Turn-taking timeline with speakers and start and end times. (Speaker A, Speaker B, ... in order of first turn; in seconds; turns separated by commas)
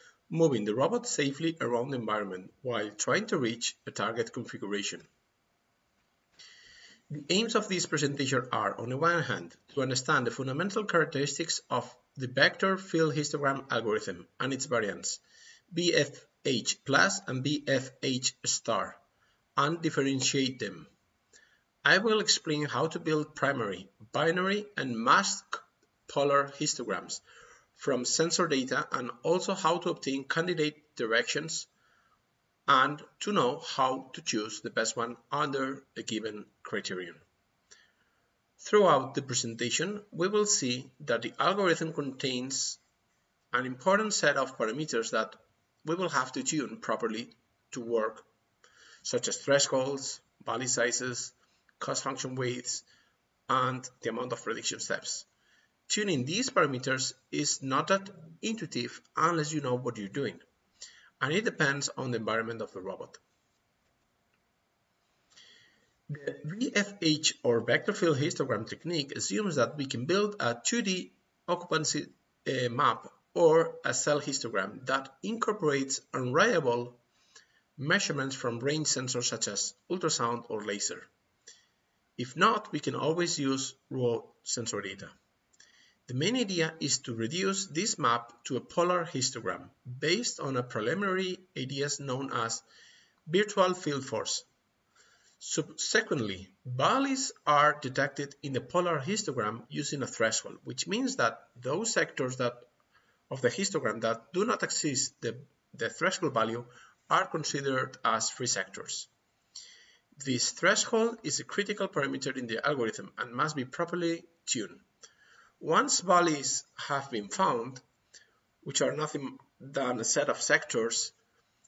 Speaker A: 0.3-5.1, Speaker A: 7.1-19.0, Speaker A: 19.6-20.9, Speaker A: 21.8-27.2, Speaker A: 27.8-31.7, Speaker A: 32.7-37.2, Speaker A: 38.6-42.8, Speaker A: 43.5-48.3, Speaker A: 49.0-52.9, Speaker A: 53.5-55.3, Speaker A: 55.9-60.4, Speaker A: 61.2-63.2, Speaker A: 66.1-77.0, Speaker A: 77.8-81.1, Speaker A: 82.2-85.1, Speaker A: 86.1-92.6, Speaker A: 93.3-94.5, Speaker A: 95.4-102.7, Speaker A: 103.3-109.1, Speaker A: 110.2-114.8, Speaker A: 115.6-117.8, Speaker A: 118.6-121.1